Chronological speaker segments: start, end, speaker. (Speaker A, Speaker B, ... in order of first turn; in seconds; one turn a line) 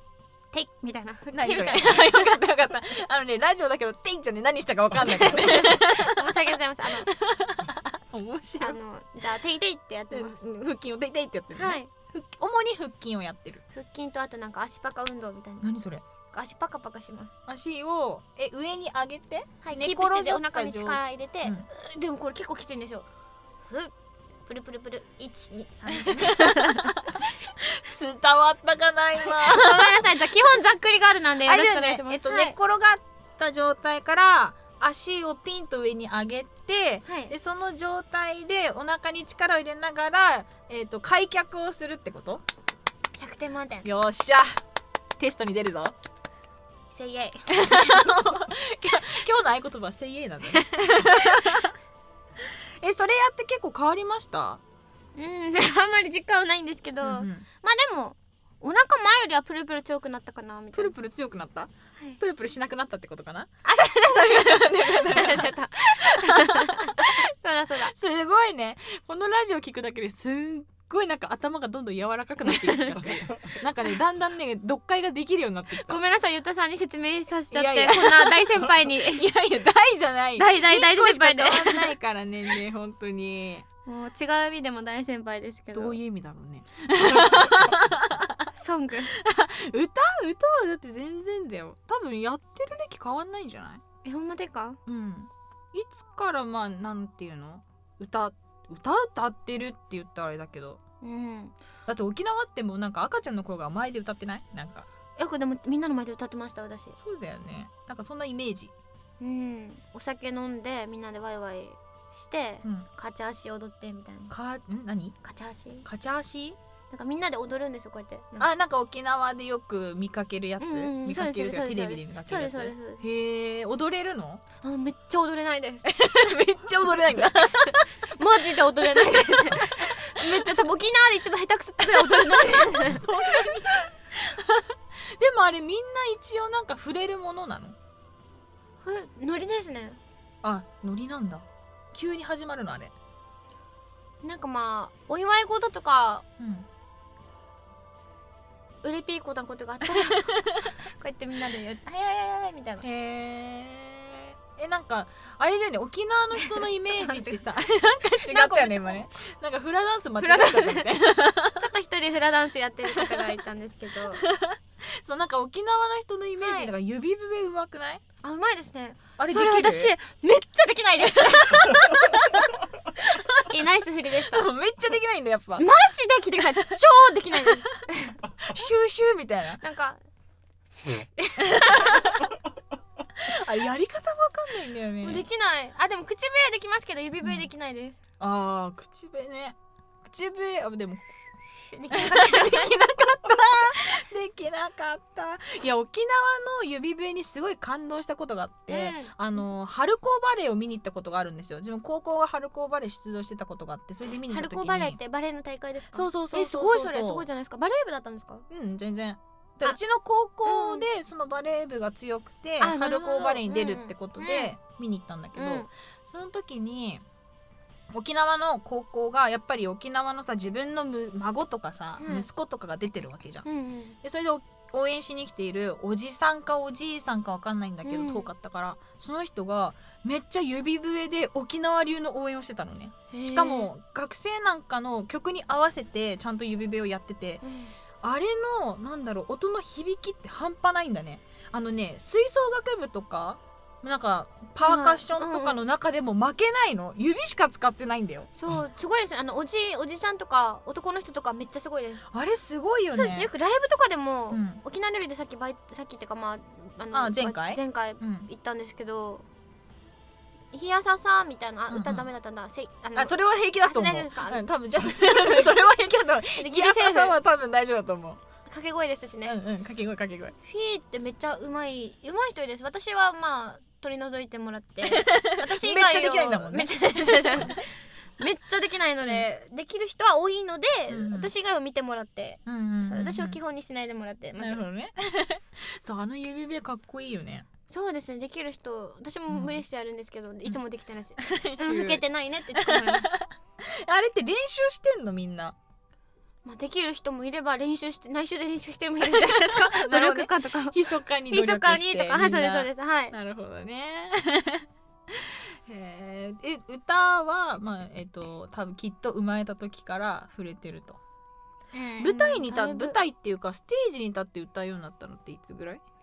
Speaker A: 0.5-2.4
Speaker B: 1.3-6.3
Speaker A: 5.2-7.1
Speaker B: 7.0-8.8
Speaker A: 8.6-10.4
Speaker B: 10.1-13.6
Speaker A: 11.5-11.9
Speaker A: 13.7-15.7
Speaker B: 15.6-16.0
Speaker A: 16.3-17.3
Speaker B: 17.4-21.6
Speaker A: 19.6-23.1
Speaker A: 23.7-23.9
Speaker A: 24.4-27.2
Speaker B: 25.9-30.1
Speaker A: 29.2-32.5
Speaker B: 31.4-42.4
Speaker A: 37.0-37.3
Speaker A: 43.2-43.9
Speaker B: 43.8-44.5
Speaker B: 45.2-45.9
Speaker A: 46.9-48.2
Speaker B: 47.5-51.7
Speaker B: 52.4-54.6
Speaker A: 55.1-60.9
Speaker B: 57.0-57.4
Speaker B: 60.7-67.2
Speaker A: 63.6-68.0
Speaker B: 67.8-76.0
Speaker A: 72.5-73.2
Speaker A: 75.7-79.2
Speaker B: 77.5-83.6
Speaker A: 80.4-81.9
Speaker A: 83.8-86.0
Speaker B: 85.7-88.5
Speaker A: 88.5-89.1
Speaker B: 89.1-93.8
Speaker A: 94.0-94.8
Speaker B: 94.8-100.8
Speaker A: 101.0-101.5
Speaker B: 101.9-104.9
Speaker A: 105.2-106.9
Speaker B: 107.0-108.7
Speaker A: 109.2-114.3
Speaker B: 114.3-115.2
Speaker A: 115.2-115.8
Speaker B: 115.8-116.6
Speaker A: 116.9-118.5
Speaker B: 118.4-124.4
Speaker A: 120.6-123.0
Speaker A: 124.6-125.9
Speaker B: 125.8-127.8
Speaker A: 127.5-133.9
Speaker B: 129.1-130.6
Speaker B: 131.8-137.8
Speaker A: 138.8-140.0
Speaker B: 140.4-142.9
Speaker A: 144.2-146.2
Speaker B: 146.4-146.7
Speaker A: 148.8-152.8
Speaker B: 149.8-150.7
Speaker B: 152.8-161.7
Speaker A: 156.4-157.4
Speaker A: 158.1-159.1
Speaker A: 160.2-160.9
Speaker A: 161.6-164.2
Speaker B: 162.9-163.3
Speaker B: 164.2-168.0
Speaker A: 166.4-166.7
Speaker A: 168.2-172.0
Speaker B: 169.2-169.9
Speaker B: 171.2-172.5
Speaker B: 173.0-173.6
Speaker A: 173.3-174.5
Speaker B: 174.2-175.7
Speaker A: 175.6-178.2
Speaker B: 176.4-176.7
Speaker B: 178.4-179.6
Speaker A: 179.6-180.0
Speaker A: 180.9-182.1
Speaker B: 181.4-182.3
Speaker B: 183.1-185.2
Speaker A: 185.0-188.0
Speaker B: 188.2-191.1
Speaker A: 191.7-192.8
Speaker B: 191.9-205.0
Speaker A: 198.7-199.1
Speaker A: 204.3-208.4
Speaker B: 205.9-207.3
Speaker B: 208.5-217.0
Speaker A: 210.4-210.9
Speaker A: 212.6-214.5
Speaker A: 215.3-215.7
Speaker B: 217.9-223.4
Speaker A: 222.0-222.3
Speaker A: 223.4-224.0
Speaker B: 224.0-237.4
Speaker A: 227.8-228.3
Speaker A: 233.1-233.7
Speaker A: 237.4-237.7
Speaker B: 238.0-248.3
Speaker A: 244.6-245.6
Speaker A: 248.3-252.1
Speaker B: 252.1-253.3
Speaker A: 252.9-259.2
Speaker B: 254.3-254.6
Speaker B: 256.9-258.3
Speaker A: 260.5-264.4
Speaker B: 261.7-262.1
Speaker B: 262.9-268.2
Speaker A: 264.9-265.5
Speaker A: 266.3-267.1
Speaker A: 268.5-269.3
Speaker B: 269.2-270.3
Speaker A: 270.4-284.6
Speaker B: 274.9-277.6
Speaker B: 280.9-281.3
Speaker B: 282.4-283.4
Speaker B: 284.4-287.4
Speaker A: 287.7-293.1
Speaker B: 289.3-289.6
Speaker B: 291.2-295.6
Speaker A: 296.4-303.1
Speaker B: 299.0-311.0
Speaker A: 311.7-313.0
Speaker B: 312.0-315.8